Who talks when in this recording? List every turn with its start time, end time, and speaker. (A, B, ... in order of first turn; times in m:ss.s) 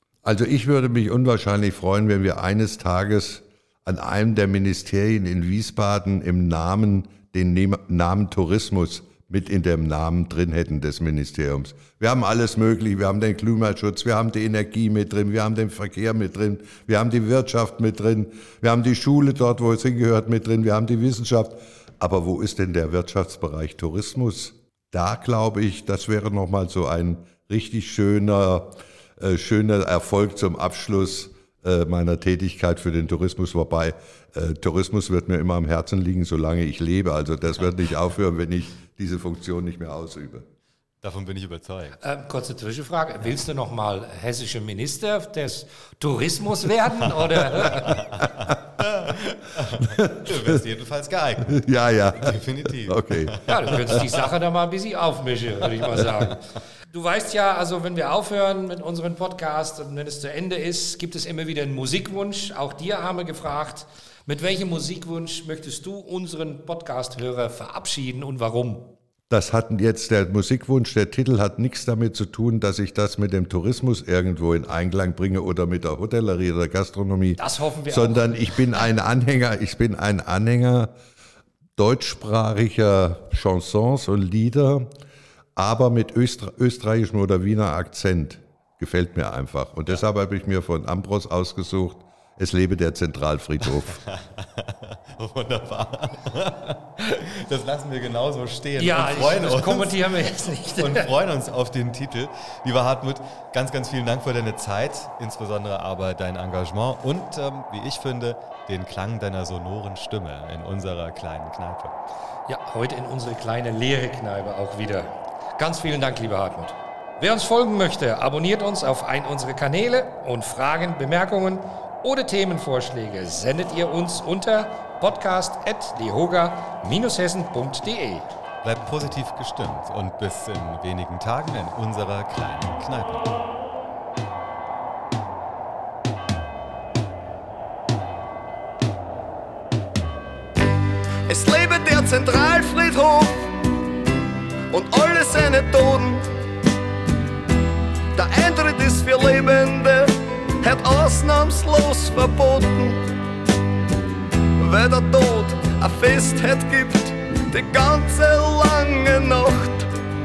0:00.2-0:40.5 A
0:41.0-0:42.0 B
0:42.0-0:48.0 C
0:47.6-0:54.1 B
0:49.8-0:50.6 A
0:51.5-0:53.4 A
0:53.5-1:08.9 C
1:09.3-1:20.9 A
1:17.4-1:18.9 C
1:21.8-1:24.9 A
1:25.6-1:34.0 A
1:33.7-1:40.0 B
1:38.8-1:41.1 C
1:40.8-1:51.9 B
1:52.5-2:08.3 C
2:08.6-2:13.3 B
2:21.3-2:23.5 D
2:24.7-2:26.3 D
2:28.1-2:33.0 D
2:34.6-2:39.9 D